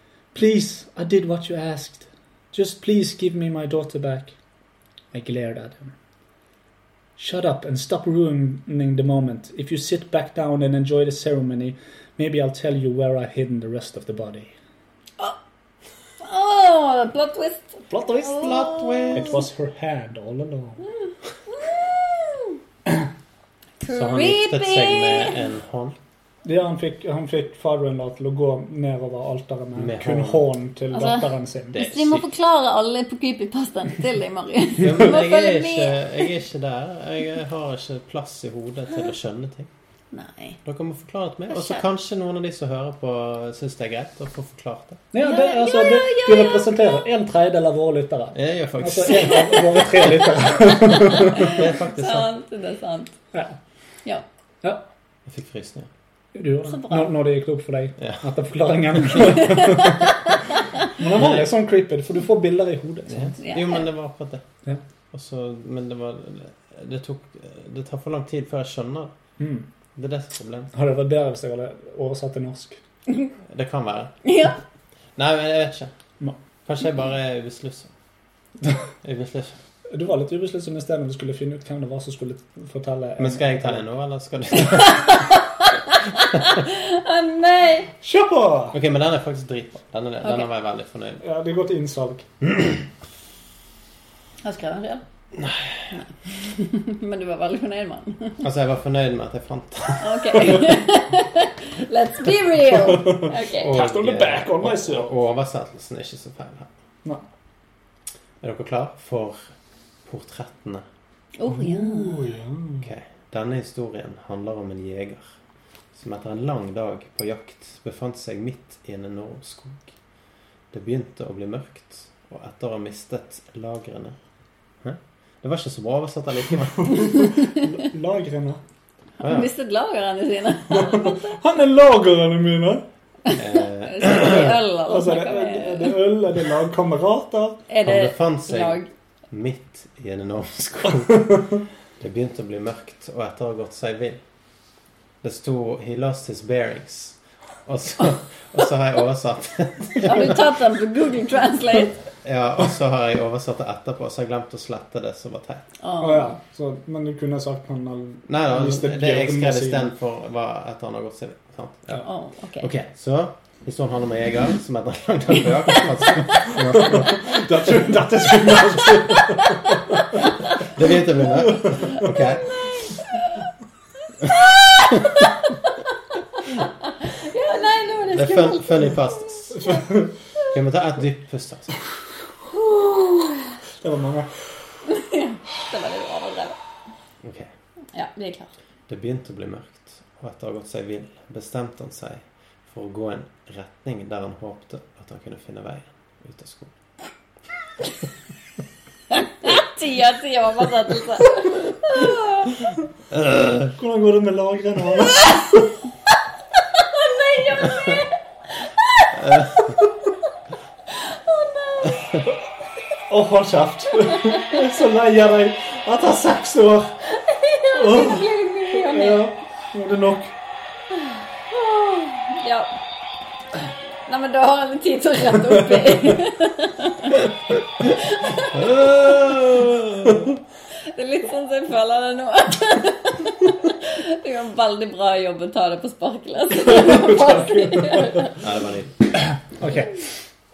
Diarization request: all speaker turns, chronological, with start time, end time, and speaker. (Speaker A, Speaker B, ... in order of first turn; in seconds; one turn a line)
Speaker A: 0.3-4.3
Speaker A: 5.1-6.0
Speaker A: 7.2-14.5
Speaker B: 16.2-19.4
Speaker A: 17.9-18.6
Speaker C: 18.3-19.4
Speaker A: 19.1-20.8
Speaker B: 21.5-22.6
Speaker B: 23.8-25.4
Speaker C: 23.9-26.0
Speaker A: 26.4-31.8
Speaker C: 29.8-30.5
Speaker B: 30.9-36.3
Speaker C: 31.7-32.3
Speaker C: 34.8-39.7
Speaker B: 40.1-40.6
Speaker C: 40.6-45.0
Speaker B: 41.5-41.8
Speaker A: 45.1-51.5
Speaker B: 45.2-46.9
Speaker C: 48.3-49.9
Speaker B: 51.0-53.2
Speaker C: 51.3-52.3
Speaker C: 55.3-55.9
Speaker A: 56.3-60.1
Speaker B: 56.6-57.1
Speaker C: 59.0-59.4
Speaker B: 59.6-60.1
Speaker A: 60.9-63.4
Speaker C: 61.1-61.5
Speaker C: 63.1-64.4
Speaker B: 63.4-63.9
Speaker C: 65.1-69.1
Speaker A: 69.4-69.7
Speaker C: 70.0-70.7
Speaker A: 70.7-72.8
Speaker C: 73.5-74.3
Speaker B: 74.2-74.6
Speaker C: 75.2-75.9
Speaker C: 76.7-77.9
Speaker C: 79.0-79.6
Speaker A: 79.9-83.8
Speaker C: 83.2-85.3
Speaker B: 84.8-87.9
Speaker A: 88.0-88.8
Speaker C: 88.7-91.2
Speaker B: 90.2-90.5
Speaker A: 91.2-92.3
Speaker B: 94.4-95.0
Speaker C: 95.3-96.0
Speaker B: 95.9-98.4
Speaker C: 98.4-100.6
Speaker B: 100.0-103.8
Speaker A: 103.0-105.1
Speaker C: 103.5-106.7
Speaker C: 108.4-109.5
Speaker C: 110.0-110.8
Speaker B: 111.4-112.3
Speaker A: 111.5-112.9
Speaker C: 112.8-115.4
Speaker C: 115.9-119.9
Speaker C: 120.7-124.2
Speaker C: 124.8-127.2
Speaker A: 126.8-128.6
Speaker B: 129.2-131.3
Speaker C: 129.2-129.5
Speaker A: 130.7-132.9
Speaker B: 133.3-136.0
Speaker C: 133.3-134.6
Speaker A: 134.9-137.6
Speaker B: 137.7-138.9
Speaker C: 137.8-138.8
Speaker C: 139.3-144.2
Speaker C: 145.2-150.4
Speaker B: 150.0-152.0
Speaker C: 152.2-155.7
Speaker B: 155.8-156.4
Speaker A: 156.0-159.9
Speaker C: 158.3-168.5
Speaker B: 162.0-162.7
Speaker A: 166.5-169.8
Speaker C: 170.6-172.6
Speaker B: 174.2-175.8
Speaker B: 176.9-179.2
Speaker C: 178.1-179.6
Speaker A: 179.5-180.1
Speaker C: 180.5-181.7
Speaker A: 183.8-184.5
Speaker B: 184.9-186.6
Speaker C: 187.2-187.5
Speaker B: 187.9-188.5
Speaker C: 188.9-196.7
Speaker B: 199.1-202.6
Speaker C: 203.1-203.7
Speaker A: 203.8-205.6
Speaker B: 206.8-209.4
Speaker C: 209.2-209.5
Speaker B: 210.9-212.2
Speaker A: 213.1-217.0
Speaker B: 217.1-219.3
Speaker A: 217.7-220.3
Speaker B: 221.5-222.7
Speaker B: 224.1-227.2
Speaker B: 227.9-228.5
Speaker C: 228.5-230.3
Speaker B: 230.9-238.4
Speaker A: 236.7-238.2
Speaker C: 238.4-239.1
Speaker A: 239.3-240.0